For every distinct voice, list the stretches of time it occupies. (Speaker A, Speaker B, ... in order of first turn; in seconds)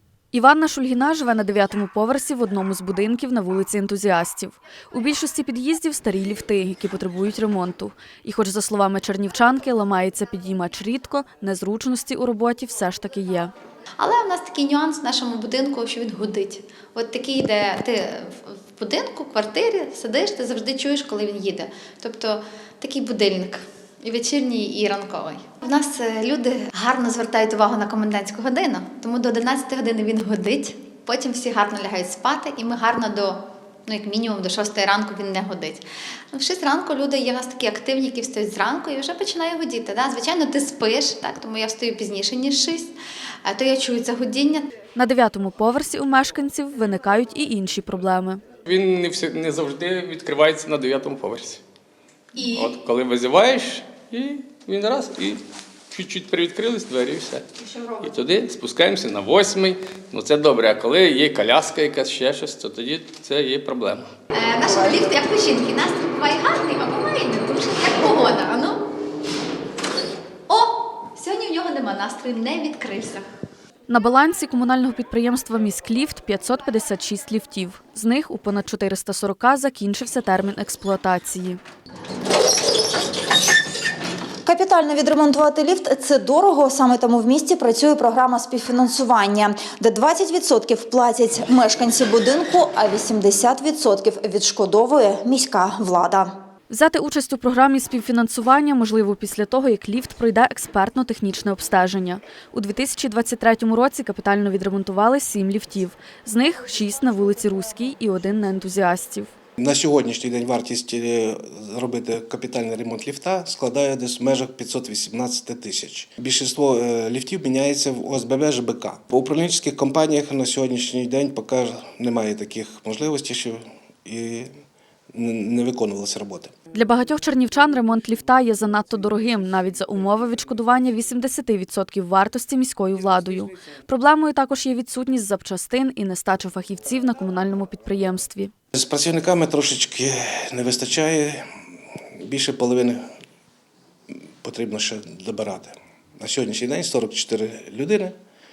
Speaker A: 0.3-13.5, 45.0-48.4, 73.9-81.6, 96.7-109.3, 126.7-138.5
Speaker B: 14.0-42.9, 43.4-44.7, 52.3-52.8, 64.3-68.8, 70.5-73.2
Speaker C: 48.6-51.6, 52.5-64.1
Speaker D: 64.7-65.0, 84.4-96.3
Speaker E: 109.6-124.5, 125.1-126.5, 138.7-141.4, 142.2-143.0, 144.4-148.1